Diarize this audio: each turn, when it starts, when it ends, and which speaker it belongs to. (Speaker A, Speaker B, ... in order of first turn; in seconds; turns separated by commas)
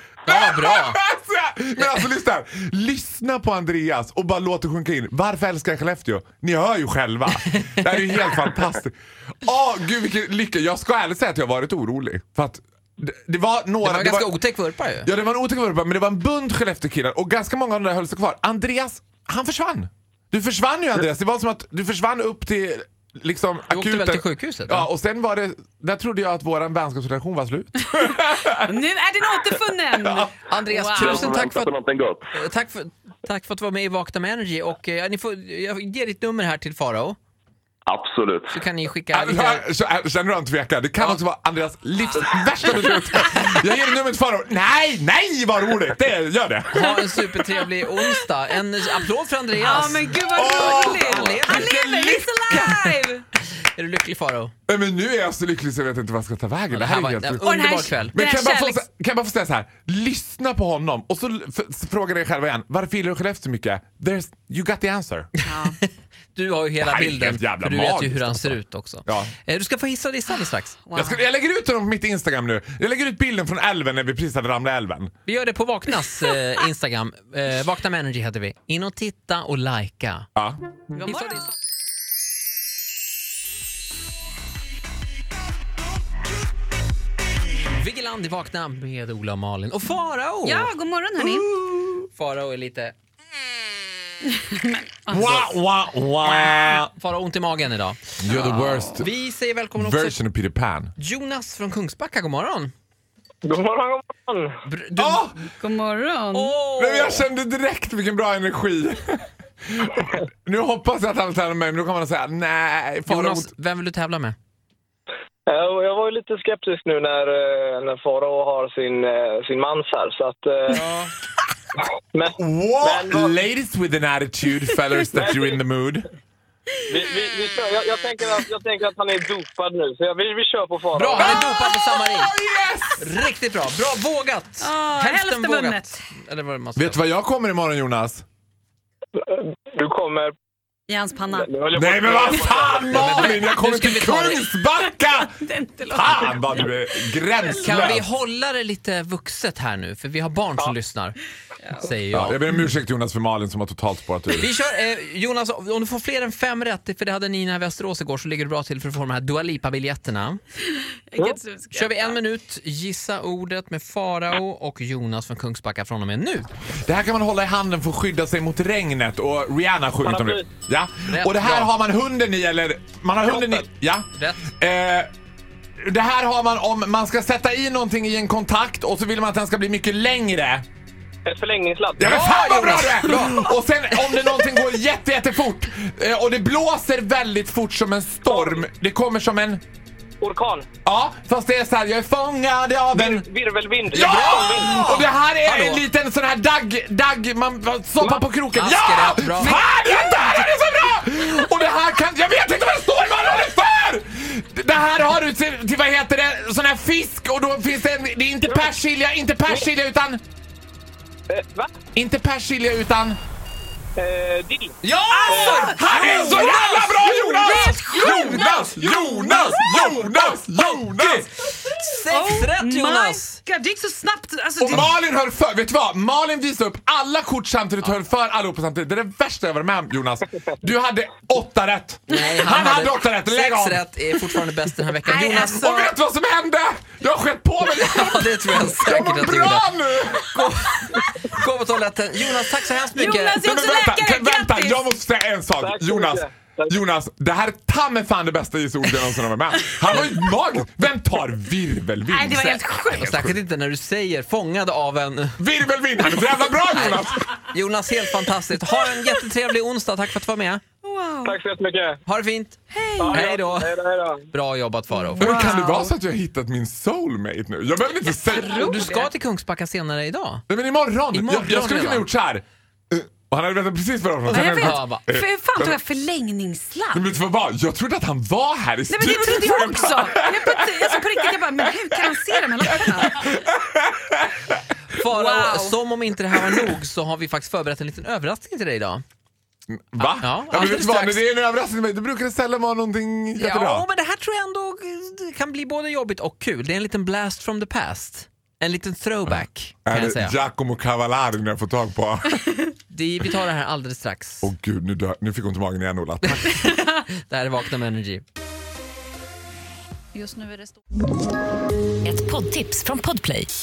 Speaker A: 0.3-1.0, Speaker B: 0.3-14.3, Speaker A: 13.8-15.1, Speaker B: 15.0-28.7, Speaker A: 23.7-24.9, Speaker C: 28.5-31.4, Speaker B: 30.0-30.3, Speaker A: 30.5-31.7, Speaker D: 30.9-32.3, Speaker A: 32.3-37.2, Speaker D: 37.9-38.5, Speaker A: 38.5-39.7, Speaker B: 39.1-46.9, Speaker A: 46.7-52.8, Speaker C: 47.0-48.3, Speaker C: 49.5-53.2, Speaker B: 50.3-52.8, Speaker A: 53.6-54.5, Speaker B: 54.7-57.4, Speaker A: 56.7-58.1, Speaker C: 57.4-58.8, Speaker B: 58.1-65.3, Speaker C: 65.5-65.8, Speaker A: 65.5-70.8, Speaker B: 66.8-69.3, Speaker C: 70.9-71.2, Speaker B: 71.0-75.1, Speaker A: 75.3-80.3, Speaker C: 81.0-81.4, Speaker A: 81.0-81.5, Speaker A: 87.7-90.7, Speaker C: 90.5-91.5, Speaker A: 92.1-92.9, Speaker C: 94.3-95.5, Speaker B: 95.1-96.9, Speaker C: 96.2-96.6, Speaker A: 96.9-100.2, Speaker B: 98.2-99.1, Speaker B: 99.8-100.9, Speaker A: 101.0-102.7, Speaker E: 103.4-104.5, Speaker A: 104.7-105.3, Speaker B: 105.0-105.4, Speaker C: 105.6-106.5, Speaker A: 106.3-107.2, Speaker B: 106.8-113.5, Speaker A: 113.1-114.4, Speaker E: 115.5-120.9, Speaker A: 120.7-121.1, Speaker E: 122.1-123.3, Speaker B: 122.4-126.1, Speaker E: 125.1-125.6, Speaker E: 126.9-131.3, Speaker A: 130.9-132.3, Speaker B: 131.2-133.1, Speaker C: 131.3-131.7, Speaker A: 133.0-137.0, Speaker C: 134.6-136.0, Speaker B: 136.8-138.2, Speaker E: 139.2-140.3, Speaker C: 140.9-141.5, Speaker E: 141.3-143.1, Speaker B: 141.7-148.1, Speaker A: 142.9-144.4, Speaker C: 143.1-143.3, Speaker C: 144.8-147.6, Speaker A: 147.6-151.2, Speaker A: 151.8-152.6, Speaker B: 152.1-154.5, Speaker A: 154.4-160.4, Speaker C: 160.9-162.2, Speaker A: 161.7-166.5, Speaker B: 166.8-174.1, Speaker E: 170.0-170.5, Speaker A: 171.1-171.7, Speaker A: 174.1-174.5, Speaker B: 174.6-175.1, Speaker B: 175.8-180.7, Speaker E: 181.3-182.2, Speaker B: 182.0-189.6, Speaker A: 182.0-183.2, Speaker E: 188.3-188.6, Speaker E: 190.2-190.7, Speaker B: 190.8-193.2, Speaker E: 192.9-195.0, Speaker B: 193.9-210.2, Speaker A: 193.9-195.8, Speaker A: 198.5-199.7, Speaker E: 208.4-208.7, Speaker E: 211.3-211.7, Speaker B: 212.0-213.2, Speaker E: 214.0-215.6, Speaker A: 214.8-215.8, Speaker C: 215.1-221.3, Speaker B: 215.7-221.3, Speaker A: 217.5-218.5, Speaker A: 221.6-223.4, Speaker C: 222.1-224.9, Speaker B: 224.6-233.8, Speaker A: 232.1-235.6, Speaker C: 235.1-236.0, Speaker B: 235.3-240.4, Speaker A: 237.6-239.7, Speaker A: 240.2-243.4, Speaker C: 242.9-244.8, Speaker B: 243.4-253.4, Speaker E: 245.6-246.8, Speaker C: 252.1-253.2, Speaker A: 253.0-255.4, Speaker B: 255.4-257.3, Speaker A: 256.7-260.6, Speaker C: 260.8-261.4, Speaker E: 261.2-262.0, Speaker A: 262.1-265.6, Speaker C: 262.7-263.2, Speaker E: 263.0-264.2, Speaker C: 264.9-265.9, Speaker B: 265.2-268.9, Speaker C: 268.3-269.1, Speaker A: 268.4-270.4, Speaker B: 270.5-275.8, Speaker A: 271.1-272.1, Speaker C: 274.3-277.0, Speaker A: 274.3-275.1, Speaker B: 276.9-284.6, Speaker C: 278.9-283.4, Speaker A: 284.9-289.0, Speaker C: 285.1-285.8, Speaker B: 289.7-293.9, Speaker A: 290.0-291.2, Speaker A: 293.4-300.4, Speaker B: 299.3-302.5, Speaker A: 302.9-304.5, Speaker B: 304.4-306.5, Speaker A: 306.3-308.2, Speaker C: 310.1-310.6, Speaker C: 312.0-313.5